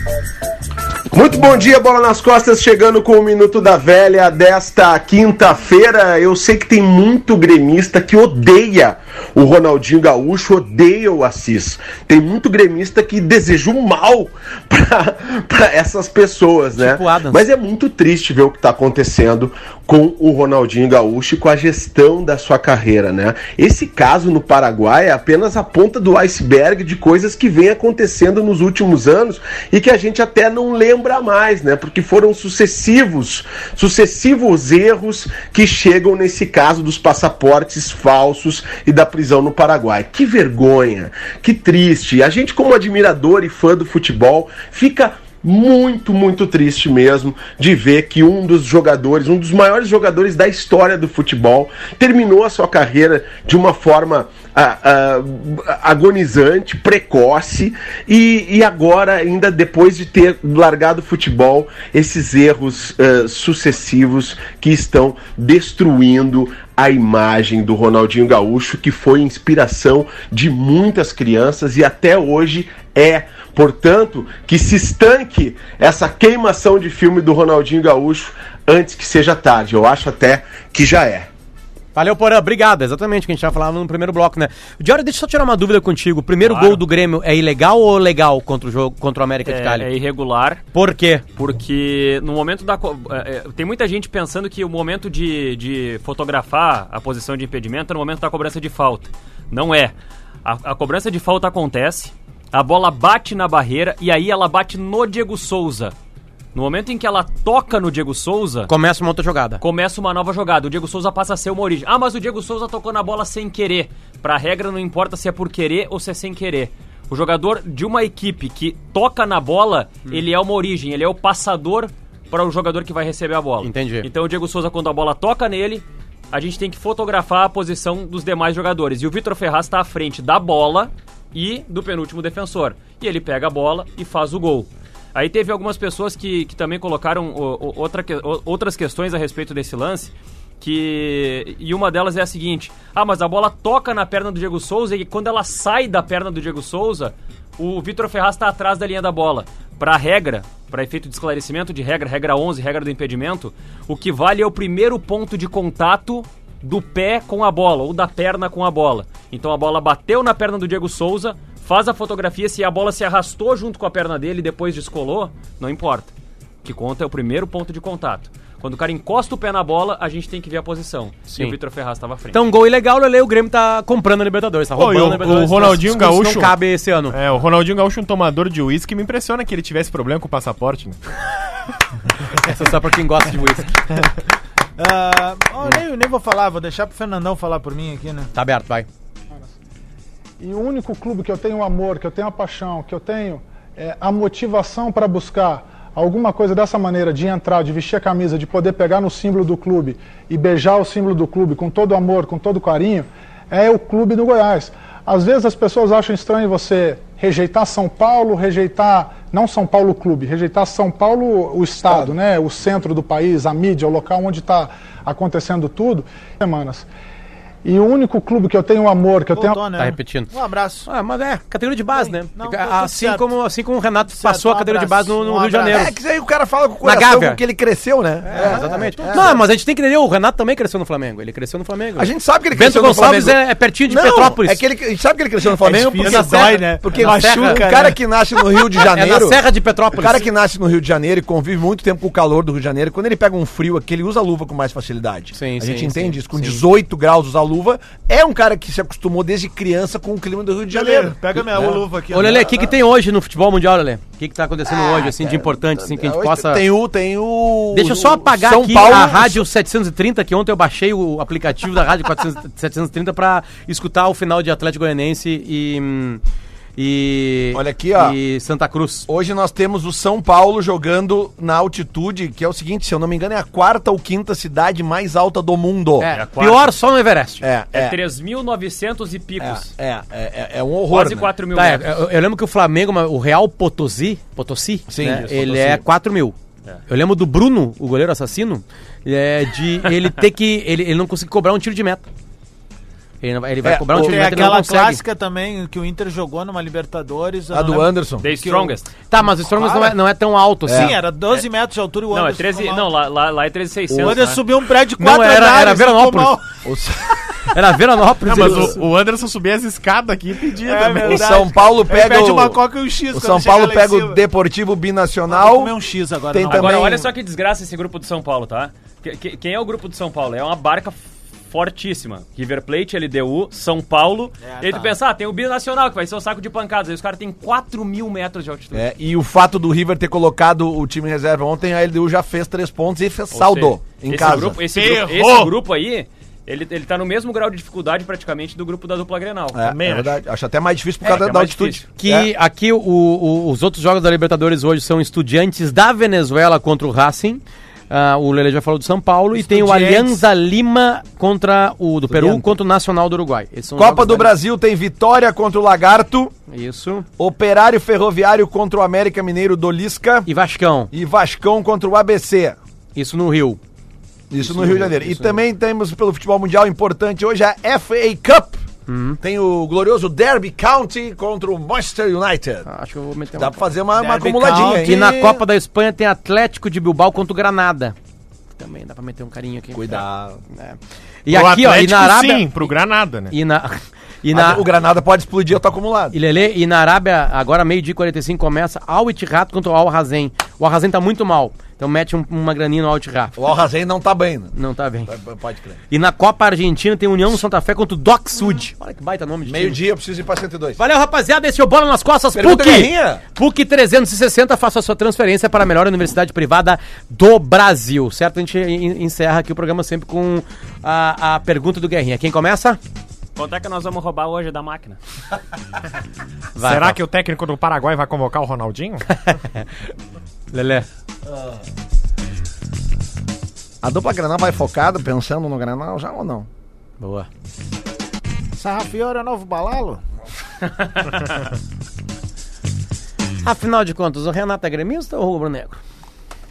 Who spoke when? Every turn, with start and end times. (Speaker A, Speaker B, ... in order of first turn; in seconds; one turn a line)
Speaker A: 1.1-81.3
Speaker B: 16.8-17.4
Speaker B: 81.9-89.9
Speaker C: 86.4-86.8
Speaker C: 89.5-90.6
Speaker B: 90.7-91.2
Speaker C: 91.3-99.9
Speaker C: 100.4-105.9
Speaker C: 106.5-108.7
Speaker B: 108.7-109.6
Speaker C: 109.6-166.1
Speaker B: 123.6-124.1
Speaker C: 166.6-172.4
Speaker B: 171.3-171.6
Speaker B: 172.3-177.2
Speaker D: 174.8-176.5
Speaker D: 177.1-181.0
Speaker B: 182.3-183.7
Speaker E: 184.8-188.3
Speaker B: 188.3-188.9
Speaker F: 190.4-216.8
Speaker F: 217.6-219.7
Speaker E: 219.3-220.9
Speaker B: 219.7-220.3
Speaker B: 220.9-225.9
Speaker E: 221.9-223.3
Speaker E: 224.1-225.9
Speaker G: 225.7-229.4
Speaker B: 226.8-227.4
Speaker B: 228.2-234.6
Speaker E: 228.3-229.5
Speaker G: 232.0-252.7
Speaker E: 235.5-238.0
Speaker B: 236.0-237.6
Speaker B: 238.7-240.2
Speaker B: 245.3-246.6
Speaker E: 250.7-252.7
Speaker B: 251.5-256.6
Speaker G: 254.7-259.4
Speaker B: 257.7-266.2
Speaker B: 266.8-269.1
Speaker G: 267.5-268.1
Speaker G: 269.1-276.1
Speaker B: 276.0-277.4
Speaker C: 276.1-276.8
Speaker G: 277.4-278.0
Speaker C: 277.7-279.7
Speaker G: 279.4-281.3
Speaker C: 280.9-282.0
Speaker B: 281.5-286.3
Speaker G: 284.9-285.8
Speaker C: 285.0-285.4
Speaker B: 286.9-292.0
Speaker B: 293.2-295.0
Speaker G: 293.6-294.6
Speaker E: 293.9-299.9
Speaker G: 297.5-298.2
Speaker C: 298.2-298.9
Speaker B: 299.1-301.0
Speaker G: 300.6-300.9
Speaker E: 300.7-302.9
Speaker C: 302.1-304.4
Speaker G: 303.9-304.2
Speaker E: 304.0-306.5
Speaker B: 305.0-306.3
Speaker G: 306.6-307.5
Speaker B: 307.5-308.8
Speaker D: 308.2-311.3
Speaker G: 308.4-308.8
Speaker E: 310.6-314.2
Speaker G: 311.0-315.7
Speaker E: 315.3-316.9
Speaker G: 316.3-317.1
Speaker C: 316.4-328.9
Speaker E: 324.4-324.9
Speaker G: 328.7-334.6
Speaker C: 333.3-340.1
Speaker D: 334.7-335.5
Speaker G: 339.5-342.3
Speaker D: 339.8-340.1
Speaker C: 341.0-341.8
Speaker B: 342.0-354.3
Speaker E: 349.5-350.1
Speaker G: 352.1-352.5
Speaker G: 353.8-356.3
Speaker B: 356.5-357.1
Speaker G: 357.2-360.3
Speaker B: 360.2-360.9
Speaker G: 360.9-362.6
Speaker B: 362.9-363.6
Speaker G: 364.3-368.6
Speaker B: 364.4-365.4
Speaker B: 368.9-369.2
Speaker G: 369.2-372.7
Speaker B: 372.6-373.6
Speaker G: 373.4-375.2
Speaker E: 373.9-375.4
Speaker B: 374.4-377.9
Speaker B: 378.6-380.0
Speaker G: 379.7-380.4
Speaker B: 380.5-382.7
Speaker D: 381.3-383.3
Speaker B: 383.3-384.6
Speaker G: 384.3-386.2
Speaker B: 386.1-393.3
Speaker G: 393.4-394.5
Speaker B: 394.5-395.1
Speaker G: 395.1-395.8
Speaker B: 395.9-399.8
Speaker G: 399.4-400.8
Speaker B: 400.8-412.8
Speaker G: 402.3-403.2
Speaker C: 413.4-415.0
Speaker B: 416.6-417.0
Speaker D: 416.6-419.0
Speaker B: 419.1-419.6
Speaker B: 420.5-420.9
Speaker G: 423.8-426.5
Speaker B: 427.0-427.3
Speaker E: 428.6-430.0
Speaker B: 433.4-435.8